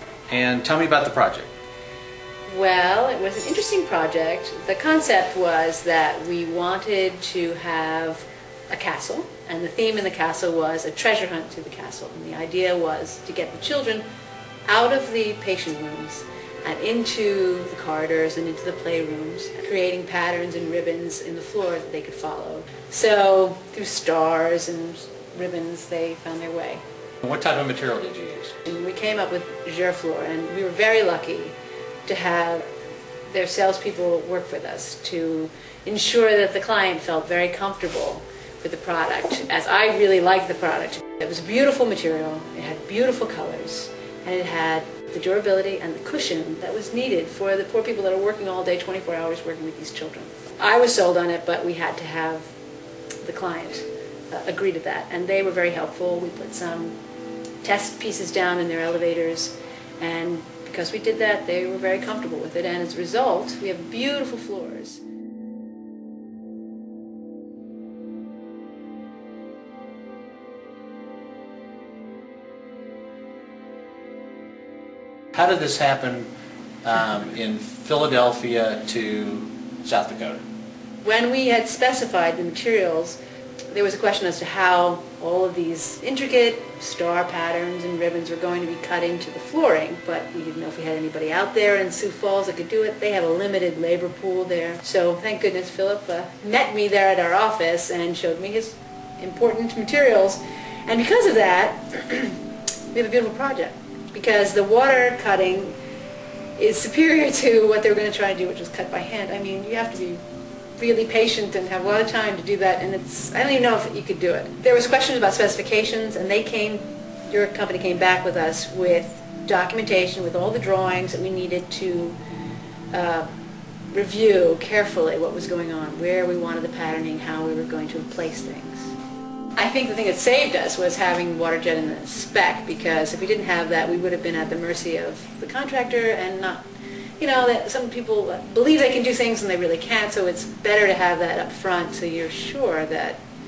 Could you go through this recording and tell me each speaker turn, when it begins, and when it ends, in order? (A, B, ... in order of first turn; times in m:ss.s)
0:00.3-0:01.5 A
0:02.5-0:14.0 B
0:14.7-0:26.8 B
0:27.2-0:28.5 A
0:28.7-0:32.7 B
0:33.3-0:52.5 B
0:53.2-0:57.0 B
0:57.6-1:05.0 B
1:15.3-1:16.3 A
1:16.8-1:20.4 A
1:21.0-1:23.2 B
1:23.7-1:42.4 B
1:42.9-1:45.8 B
1:46.6-1:50.2 B
1:50.8-2:02.2 B
2:02.9-2:03.3 B
2:03.9-2:08.9 B
2:09.6-2:16.6 B
2:17.2-2:23.2 B